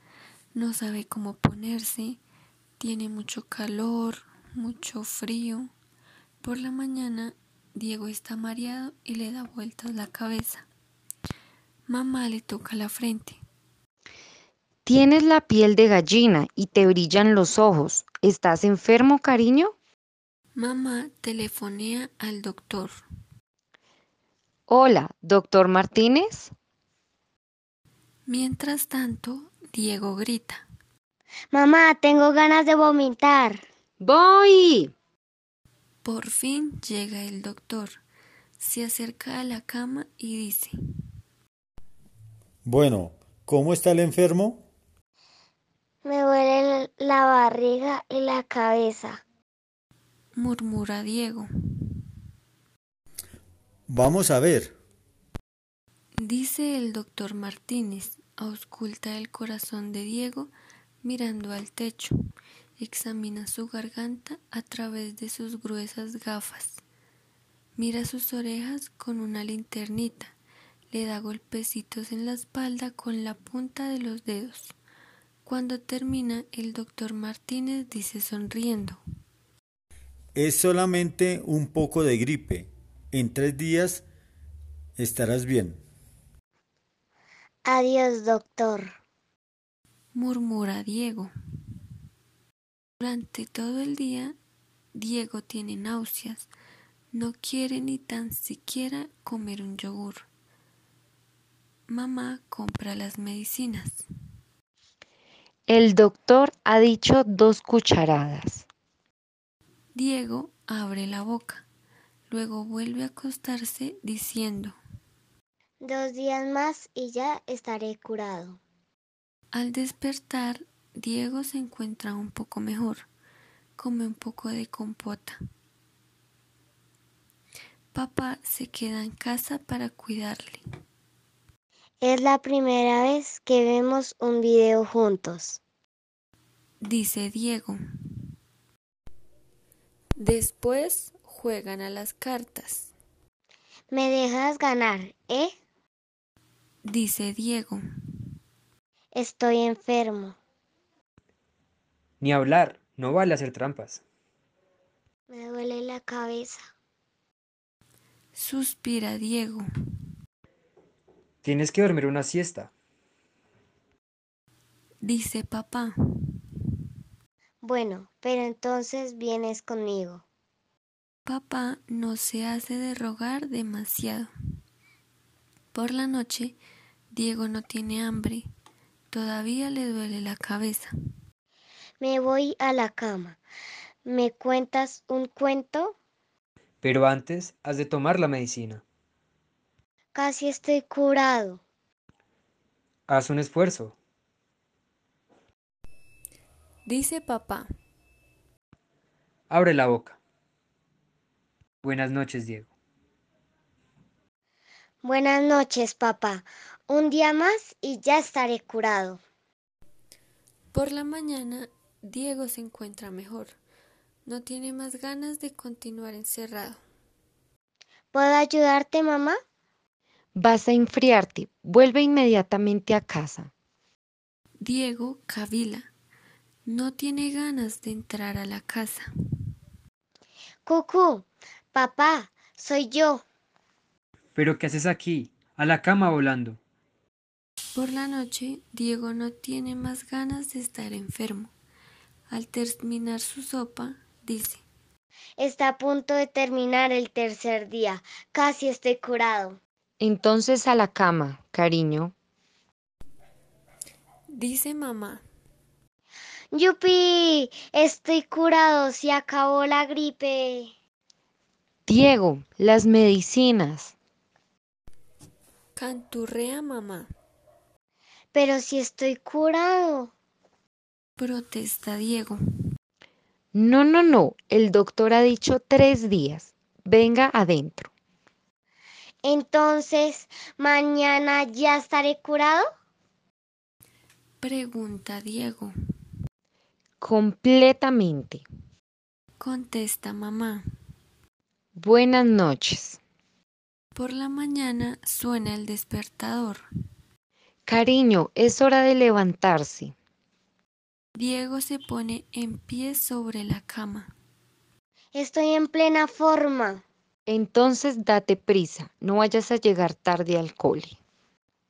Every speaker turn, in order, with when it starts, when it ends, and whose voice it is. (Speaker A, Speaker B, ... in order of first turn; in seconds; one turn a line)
Speaker A: 0.5-2.2
Speaker A: 2.8-5.7
Speaker A: 6.4-10.7
Speaker A: 11.9-13.4
Speaker B: 14.9-19.8
Speaker A: 20.6-23.0
Speaker B: 24.7-26.5
Speaker A: 28.2-30.6
Speaker C: 31.5-33.6
Speaker B: 34.0-34.9
Speaker A: 36.0-38.0
Speaker A: 38.6-40.7
Speaker D: 42.6-44.7
Speaker C: 46.0-49.2
Speaker A: 50.4-51.9
Speaker D: 53.9-54.8
Speaker A: 56.2-60.5
Speaker A: 61.0-62.1
Speaker A: 62.8-66.8
Speaker A: 67.8-70.3
Speaker A: 70.9-74.7
Speaker A: 75.4-79.0
Speaker D: 80.3-84.0
Speaker D: 85.0-85.8
Speaker C: 87.6-88.9
Speaker A: 90.1-91.3
Speaker A: 93.0-94.3
Speaker A: 94.9-96.5
Speaker A: 97.1-100.3
Speaker A: 101.9-104.0
Speaker B: 105.7-108.7
Speaker A: 109.9-111.7
Speaker A: 112.3-114.8
Speaker C: 115.8-118.6
Speaker A: 119.5-123.1
Speaker A: 123.8-125.4
Speaker A: 127.9-130.6
Speaker C: 132.0-135.6
Speaker A: 136.8-137.8
Speaker A: 140.2-142.9
Speaker C: 143.9-145.5
Speaker A: 146.8-147.8
Speaker C: 149.1-150.3
Speaker E: 152.2-154.0
Speaker C: 155.3-156.6
Speaker A: 158.3-159.7
Speaker E: 161.4-162.7
Speaker A: 165.0-166.3
Speaker C: 167.6-170.2
Speaker A: 171.2-174.3
Speaker A: 175.7-176.6
Speaker A: 177.1-178.4
Speaker A: 179.1-180.9
Speaker C: 182.0-183.4
Speaker C: 184.0-185.9
Speaker E: 186.8-188.8
Speaker C: 190.1-191.6
Speaker E: 193.1-193.9
Speaker A: 196.8-197.7
Speaker E: 199.5-200.2
Speaker E: 201.8-202.7
Speaker C: 205.0-209.2
Speaker A: 210.7-213.6
Speaker A: 214.2-216.8
Speaker C: 218.1-219.4
Speaker B: 220.3-223.5
Speaker A: 224.6-225.9
Speaker A: 226.7-229.1
Speaker C: 230.6-233.2
Speaker E: 234.3-236.6
Speaker A: 237.8-241.5
Speaker A: 242.3-244.6
Speaker C: 245.4-249.6
Speaker B: 250.0-252.1
Speaker A: 254.3-255.2
Speaker C: 256.5-260.7
Speaker B: 261.9-263.9
Speaker A: 265.8-267.1
Speaker C: 268.3-270.1
Speaker A: 271.2-272.4
Speaker B: 273.5-277.9
Speaker C: 279.2-282.6
Speaker A: 284.4-285.7
Speaker B: 287.0-288.4
Speaker A: 289.4-290.6
Speaker B: 291.8-293.0
Speaker A: 293.9-296.6
Speaker B: 297.7-299.9
Speaker A: 301.1-304.1
Speaker C: 305.1-306.8
Speaker B: 307.2-311.0